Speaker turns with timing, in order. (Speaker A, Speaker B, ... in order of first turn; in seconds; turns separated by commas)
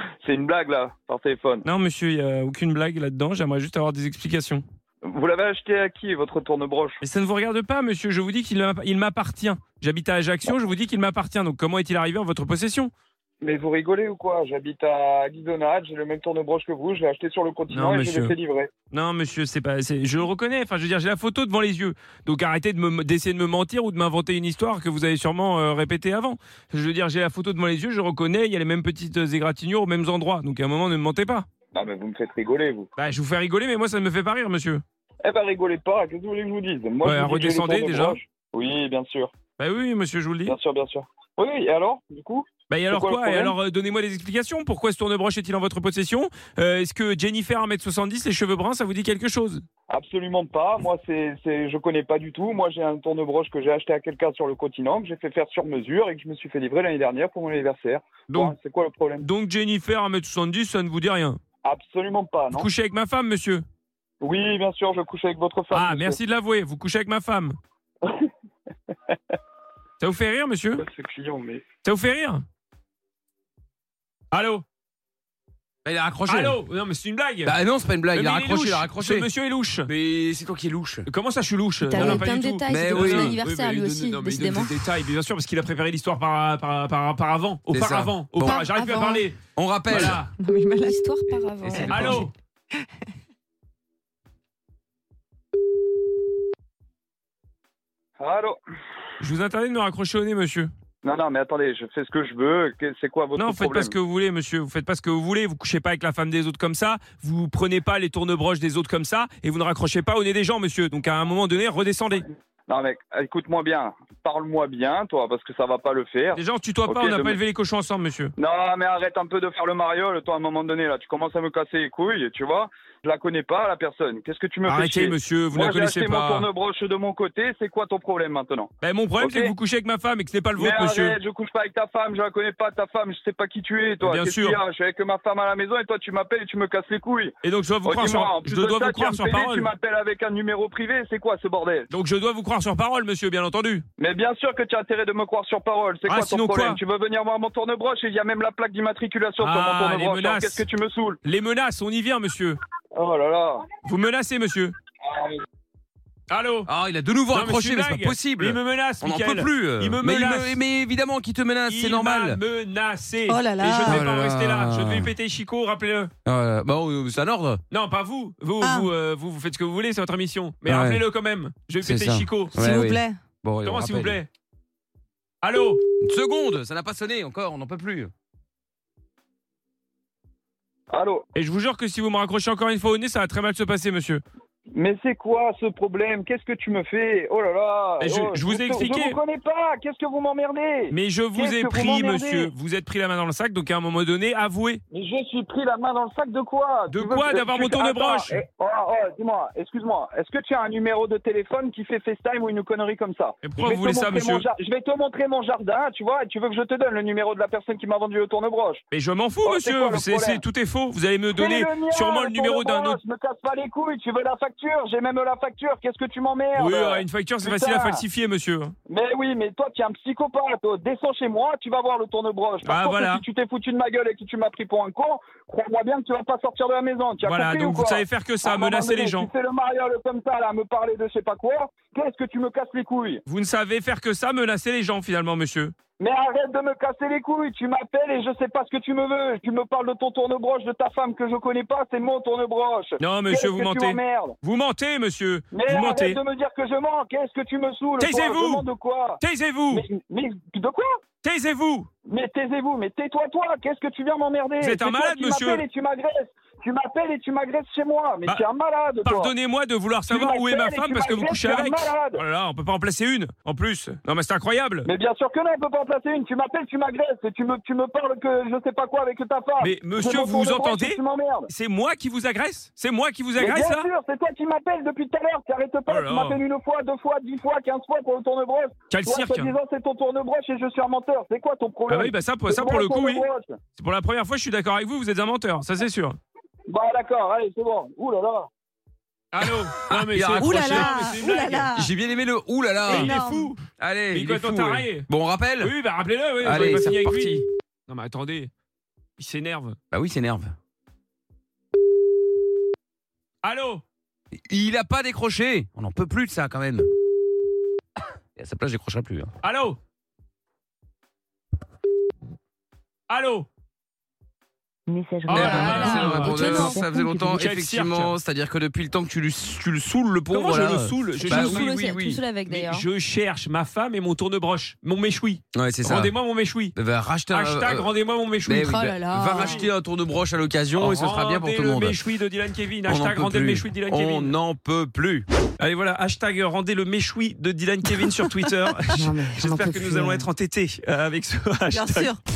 Speaker A: 0.2-1.7, Speaker B: 1.6-4.6, Speaker A: 5.0-7.0, Speaker B: 7.0-12.9, Speaker A: 13.4-18.7, Speaker B: 17.7-18.3, Speaker B: 18.9-31.5, Speaker A: 31.7-32.9, Speaker B: 33.0-34.8, Speaker A: 35.2-39.3, Speaker B: 37.0-38.2, Speaker B: 39.6-40.5, Speaker A: 40.5-43.6, Speaker B: 42.7-49.6, Speaker A: 49.9-59.3, Speaker B: 58.3-58.5, Speaker B: 59.2-61.4, Speaker A: 61.6-62.7, Speaker B: 62.5-63.6, Speaker A: 64.2-66.2, Speaker B: 65.7-67.6, Speaker B: 70.0-70.8, Speaker A: 70.8-71.6, Speaker B: 71.8-72.5, Speaker B: 74.3-74.6, Speaker C: 75.8-76.6, Speaker B: 76.3-77.5, Speaker C: 77.4-79.3, Speaker B: 78.1-79.9, Speaker C: 79.9-81.1, Speaker B: 81.1-89.4, Speaker D: 81.8-84.8, Speaker C: 81.9-83.4, Speaker C: 87.7-88.7, Speaker D: 88.4-89.3, Speaker C: 89.6-90.2, Speaker B: 89.9-90.3, Speaker E: 90.2-91.0, Speaker D: 90.8-92.3, Speaker B: 91.7-92.3, Speaker E: 91.7-92.2, Speaker C: 91.9-92.1, Speaker A: 98.2-98.6, Speaker B: 99.2-100.7, Speaker A: 101.0-104.0, Speaker B: 103.4-112.3, Speaker A: 112.7-117.4, Speaker B: 116.3-118.3, Speaker A: 118.4-129.5, Speaker B: 124.7-126.5, Speaker B: 128.8-131.2, Speaker A: 130.6-141.9, Speaker B: 134.0-134.6, Speaker B: 137.4-139.7, Speaker B: 141.9-143.9, Speaker A: 144.0-151.2, Speaker B: 146.1-146.8, Speaker B: 149.4-150.6, Speaker B: 151.2-152.6, Speaker A: 152.9-153.7, Speaker B: 153.8-154.8, Speaker A: 155.0-155.4, Speaker B: 156.3-156.7, Speaker C: 156.7-162.4, Speaker B: 157.3-160.6, Speaker B: 161.7-166.1, Speaker E: 163.3-164.0, Speaker C: 163.7-165.1, Speaker C: 166.2-167.6, Speaker B: 167.7-172.7, Speaker E: 168.6-168.9, Speaker C: 170.7-171.0, Speaker C: 171.8-174.2, Speaker E: 172.6-173.2, Speaker B: 173.6-174.3, Speaker B: 175.4-175.8, Speaker C: 176.0-178.1, Speaker A: 180.9-181.2, Speaker B: 181.3-184.2, Speaker A: 184.7-192.5, Speaker B: 188.0-189.2, Speaker B: 190.9-194.8, Speaker A: 194.9-208.8, Speaker B: 196.9-198.4, Speaker B: 203.4-204.5, Speaker B: 208.9-213.0, Speaker A: 209.4-210.4, Speaker A: 211.3-218.0, Speaker B: 216.6-218.8, Speaker A: 218.9-233.2, Speaker B: 222.6-223.2, Speaker B: 227.2-229.3, Speaker B: 233.3-235.7, Speaker A: 236.0-244.4, Speaker B: 243.0-246.2, Speaker A: 245.5-251.0, Speaker B: 248.0-248.7, Speaker B: 249.2-249.8, Speaker B: 251.2-251.9, Speaker A: 252.1-259.3, Speaker B: 254.6-255.7, Speaker B: 259.0-264.9, Speaker A: 260.1-262.2, Speaker A: 264.9-271.5, Speaker B: 269.6-273.9, Speaker A: 273.4-283.6, Speaker B: 275.9-276.4, Speaker B: 278.9-279.5, Speaker B: 281.9-286.2, Speaker A: 286.7-288.5, Speaker B: 289.3-291.8, Speaker C: 289.9-291.2, Speaker E: 290.4-291.9, Speaker C: 291.7-293.2, Speaker B: 292.8-295.1, Speaker E: 292.9-293.5, Speaker C: 293.8-295.7, Speaker B: 295.6-298.5, Speaker C: 296.4-297.4, Speaker B: 299.2-299.8, Speaker C: 299.9-300.5, Speaker B: 303.4-303.8, Speaker C: 304.5-306.9, Speaker C: 308.4-309.3, Speaker B: 309.4-309.8, Speaker B: 313.1-313.5, Speaker F: 314.9-317.5, Speaker B: 315.3-318.1, Speaker C: 315.3-322.2, Speaker D: 315.3-316.7, Speaker B: 320.3-321.9, Speaker D: 321.2-322.9, Speaker B: 322.4-326.8, Speaker C: 325.5-326.1, Speaker C: 326.8-327.9, Speaker B: 327.3-328.8, Speaker C: 328.4-332.0, Speaker D: 328.5-329.6, Speaker B: 329.3-329.7, Speaker B: 330.8-334.4, Speaker C: 332.9-335.3, Speaker B: 335.6-342.2, Speaker E: 338.9-339.8, Speaker F: 339.4-340.3, Speaker E: 341.7-342.2